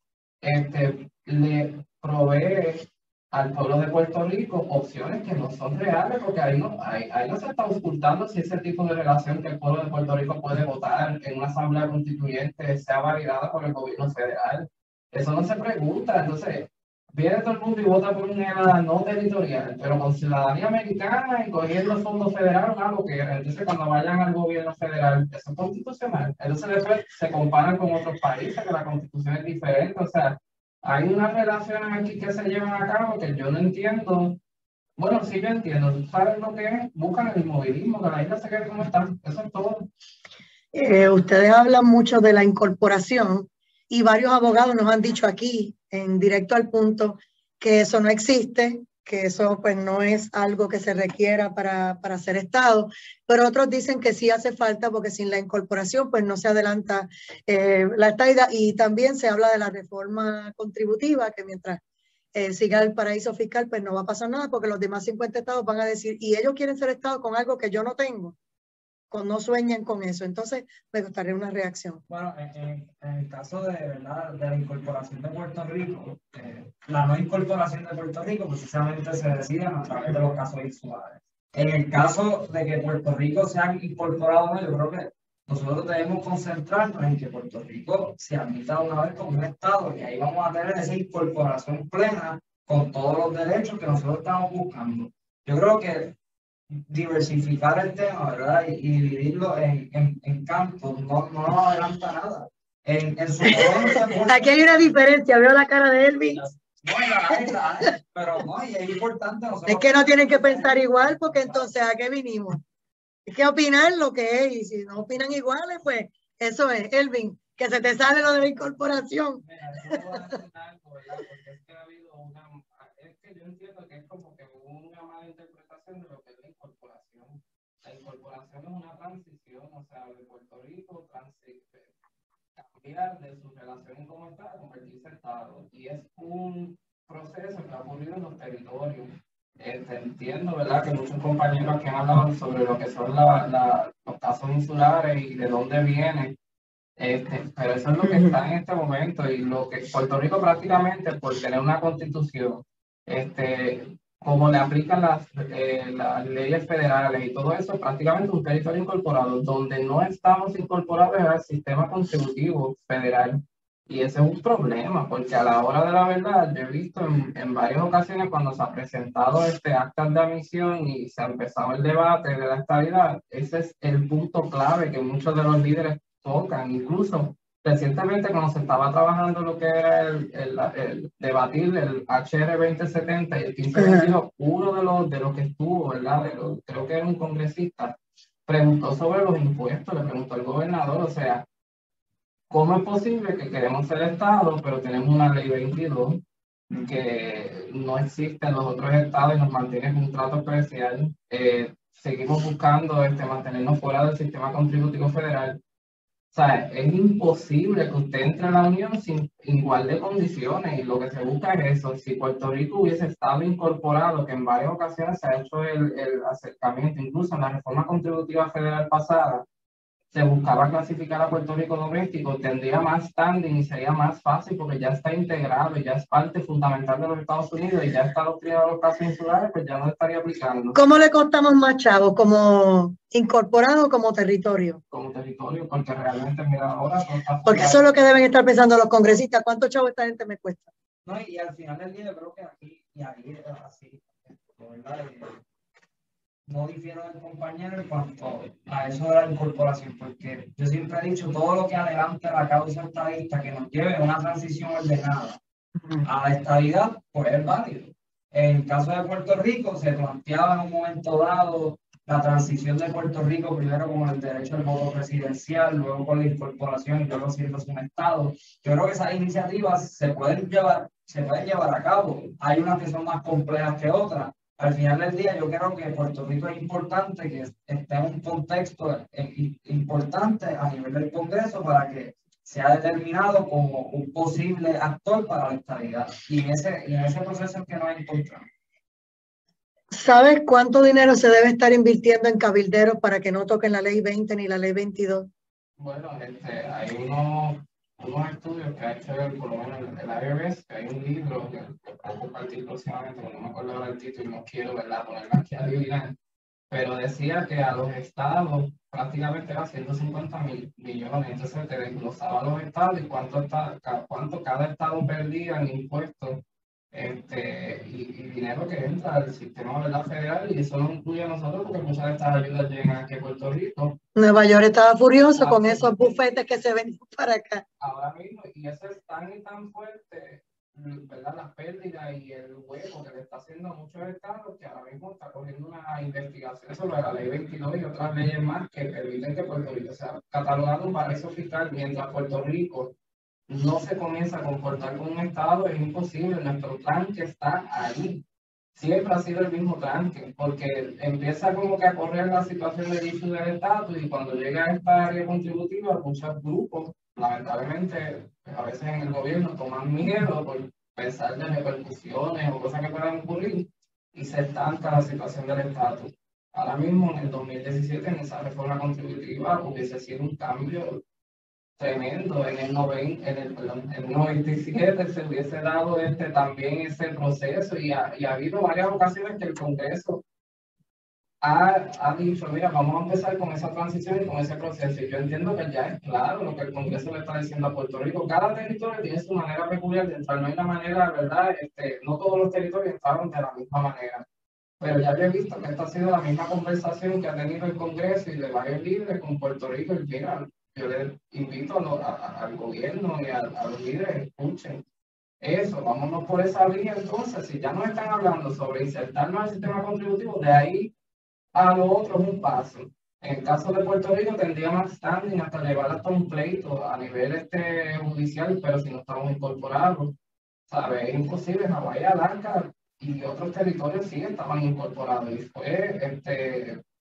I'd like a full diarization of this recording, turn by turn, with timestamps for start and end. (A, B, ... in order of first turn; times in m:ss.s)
0:00.4-0:34.4 A
0:35.0-0:39.9 A
0:40.7-1:01.8 B
1:02.3-1:08.4 B
1:09.1-1:12.0 B
1:12.1-1:36.1 C
1:36.7-1:44.6 C
1:44.3-1:46.5 B
1:46.8-1:51.7 C
1:47.3-1:47.9 B
1:49.7-1:52.6 B
1:53.3-2:00.2 B
1:59.4-2:11.9 A
2:12.6-2:26.4 A
2:27.0-3:11.4 A
2:28.0-2:28.4 B
3:03.7-3:04.1 B
3:12.5-3:25.6 A
3:26.3-3:39.4 A
3:40.1-3:50.8 A
3:50.7-3:54.8 B
3:54.9-3:58.1 A
3:57.4-4:00.7 B
4:01.0-4:05.4 C
4:06.5-4:15.4 C
4:16.0-4:48.5 C
4:49.9-4:55.3 B
4:55.8-5:06.1 A
5:06.7-5:16.4 A
5:16.9-5:24.0 A
5:24.2-5:27.6 B
5:25.3-5:26.4 A
5:27.8-5:42.9 A
5:43.5-5:48.2 A
5:48.8-6:11.0 A
6:11.8-6:20.2 A
6:21.4-6:34.2 A
6:34.8-6:44.8 A
6:45.4-6:50.9 A
6:51.5-7:00.1 A
7:00.7-7:06.8 A